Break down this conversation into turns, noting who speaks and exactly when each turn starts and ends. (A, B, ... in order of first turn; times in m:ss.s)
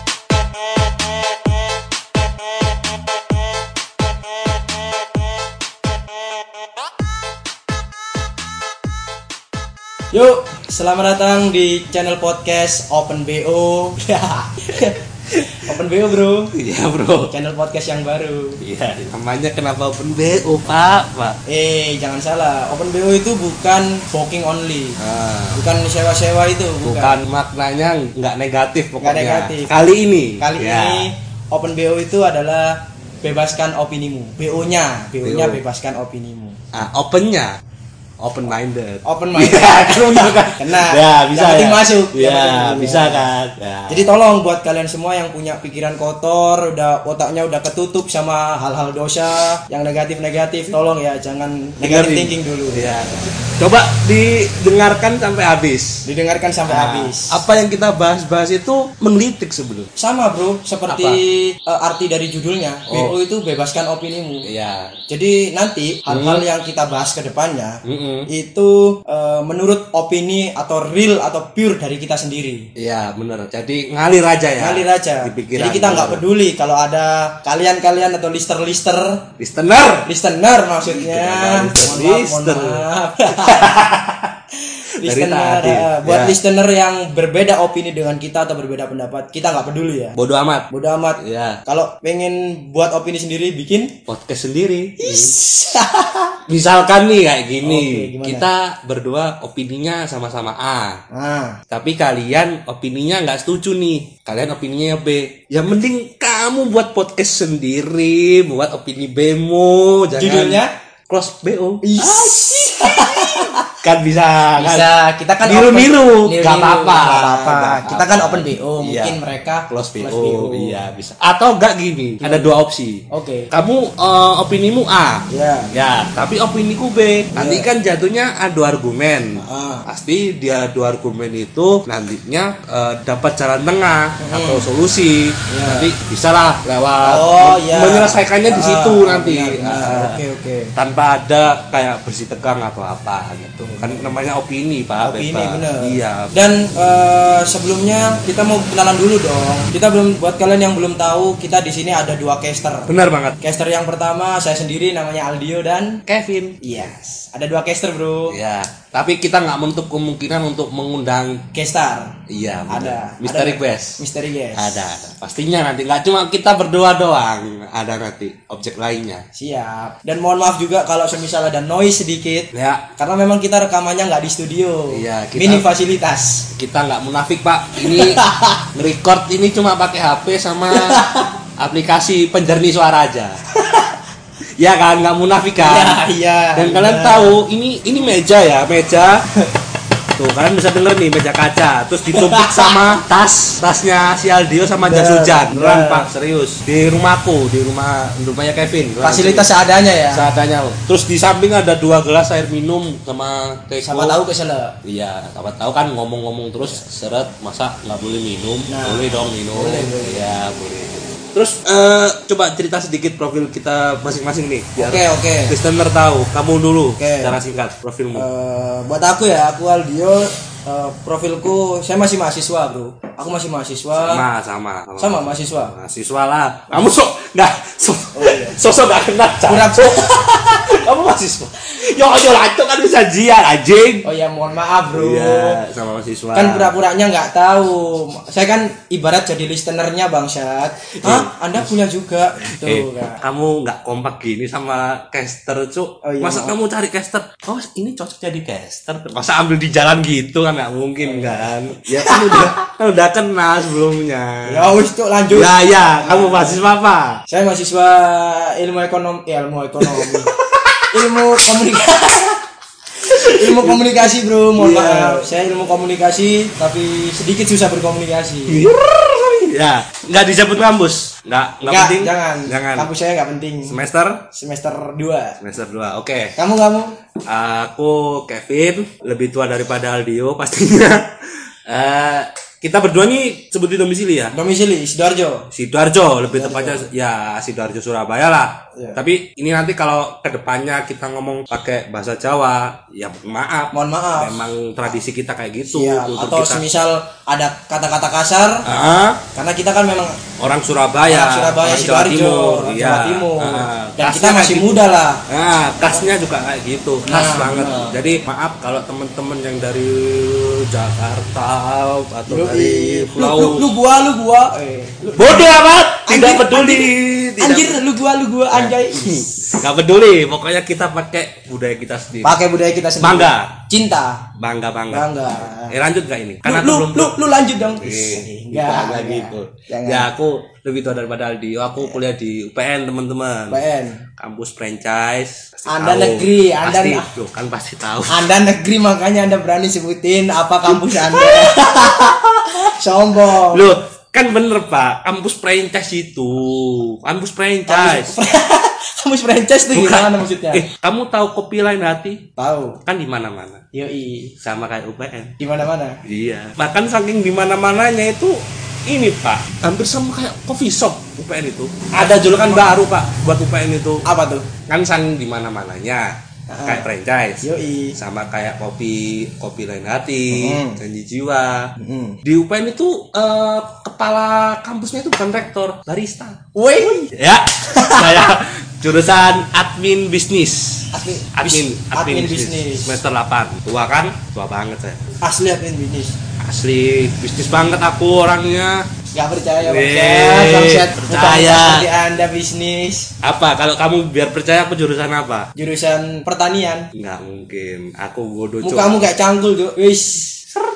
0:10.1-0:15.0 A
0:15.6-0:16.5 A
0:16.6-0:17.3 B
0:17.3-0:18.6 A
0:18.6-0:21.4 B
0:21.5-0:25.0 A
0:25.0-0:25.6 B
0:25.5-0:27.2 A
0:26.8-0:31.1 B
0:29.0-0:29.8 A
0:30.4-0:36.6 A
0:35.2-0:35.6 B
0:36.7-0:37.6 B
0:38.2-0:44.1 B
0:39.0-0:43.3 A
0:43.9-0:52.9 A
0:51.8-0:56.0 B
0:56.0-0:57.4 A
0:56.7-0:59.9 B
1:00.0-1:04.5 A
1:00.9-1:01.2 B
1:02.9-1:03.1 B
1:04.4-1:04.9 B
1:05.1-1:12.7 A
1:06.1-1:06.4 B
1:07.8-1:08.3 B
1:12.8-1:16.2 B
1:14.6-1:19.2 A
1:19.4-1:20.1 B
1:20.0-1:23.8 A
1:20.8-1:24.3 B
1:24.7-1:30.2 A
1:25.0-1:26.4 B
1:30.2-1:31.6 B
1:30.7-1:33.9 A
1:34.1-1:35.3 B
1:35.0-1:36.4 A
1:36.5-1:41.0 B
1:37.6-1:38.5 A
1:41.1-1:41.6 A
1:41.7-1:54.9 B
1:50.2-1:50.7 A
1:51.8-1:53.7 A
1:54.6-2:00.8 A
1:55.4-1:59.2 B
1:59.7-2:20.2 B
2:02.2-2:02.5 A
2:03.1-2:03.5 A
2:05.3-2:05.7 A
2:07.3-2:07.7 A
2:09.4-2:09.9 A
2:14.2-2:14.7 A
2:15.5-2:15.9 A
2:17.0-2:20.7 A
2:20.8-2:26.3 B
2:23.6-2:24.1 A
2:25.0-2:36.0 A
2:32.9-2:33.3 B
2:36.0-2:36.6 B
2:36.6-2:38.4 A
2:38.3-2:41.4 B
2:41.5-2:42.1 A
2:42.3-2:44.0 B
2:42.7-2:44.8 A
2:44.5-2:49.2 B
2:49.3-2:56.5 A
2:52.5-2:52.8 B
2:54.9-2:55.7 B
2:56.6-2:58.2 B
2:57.8-2:58.6 A
2:58.7-3:01.0 B
3:00.7-3:01.3 A
3:01.6-3:03.4 B
3:04.6-3:06.0 B
3:05.6-3:07.4 A
3:06.6-3:09.2 B
3:10.2-3:19.5 B
3:12.1-3:12.8 A
3:14.8-3:16.1 A
3:19.0-3:20.3 A
3:20.1-3:24.2 B
3:23.8-3:24.8 A
3:24.8-3:38.2 B
3:28.7-3:30.2 A
3:34.8-3:35.5 A
3:37.0-3:37.4 A
3:38.1-3:44.2 A
3:44.0-3:54.1 B
3:45.0-3:45.7 A
3:48.1-3:48.6 A
3:49.4-3:50.1 A
3:54.0-3:55.6 A
3:54.9-3:56.7 B
3:56.3-4:03.2 A
4:01.0-4:01.7 B
4:02.6-4:14.8 B
4:06.0-4:06.5 A
4:11.0-4:12.6 A
4:14.4-4:16.6 A
4:15.3-4:17.2 B
4:17.3-4:20.3 A
4:19.8-4:21.2 B
4:20.9-4:22.4 A
4:23.1-4:25.3 B
4:23.1-4:28.6 A
4:28.5-4:32.9 B
4:31.6-4:33.8 A
4:33.7-4:34.2 B
4:34.3-4:35.4 A
4:35.4-4:36.3 B
4:36.4-4:36.9 A
4:37.3-4:44.3 B
4:44.3-4:45.5 A
4:45.5-4:56.6 B
4:46.3-4:46.8 A
4:48.7-4:49.0 A
4:53.7-4:54.4 A
4:55.7-4:58.6 A
4:58.6-4:59.2 B
4:59.3-5:00.2 A
5:00.4-5:13.6 B
5:01.1-5:05.2 A
5:07.1-5:08.0 A
5:12.3-5:15.5 A
5:15.1-5:17.8 B
5:16.0-5:19.6 A
5:18.5-5:22.4 B
5:22.2-5:24.3 A
5:23.0-5:23.5 B
5:24.4-5:33.6 B
5:24.9-5:25.8 A
5:26.4-5:30.1 A
5:33.5-5:34.0 A
5:34.2-5:38.3 B
5:35.7-5:37.1 A
5:38.1-5:42.2 A
5:40.7-5:42.5 B
5:42.8-5:43.8 A
5:43.3-5:48.2 B
5:47.7-5:50.6 A
5:49.7-5:52.2 B
5:52.4-5:52.8 A
5:52.8-5:53.6 B
5:53.7-5:54.3 A
5:54.4-5:55.3 B
5:55.4-5:56.0 A
5:56.0-6:04.0 B
6:01.9-6:02.7 A
6:04.0-6:04.5 A
6:04.7-6:07.4 B
6:06.5-6:06.8 A
6:07.4-6:08.0 A
6:08.0-6:11.7 B
6:10.3-6:10.8 A
6:11.8-6:12.2 A
6:12.2-6:16.4 B
6:16.5-6:17.1 A
6:17.1-6:25.0 B
6:20.9-6:23.0 A
6:25.2-6:26.2 A
6:26.4-6:28.8 B
6:29.1-6:33.1 A
6:29.6-6:31.9 B
6:33.2-6:35.5 B
6:35.6-6:36.9 A
6:36.9-6:39.1 B
6:38.6-6:40.5 A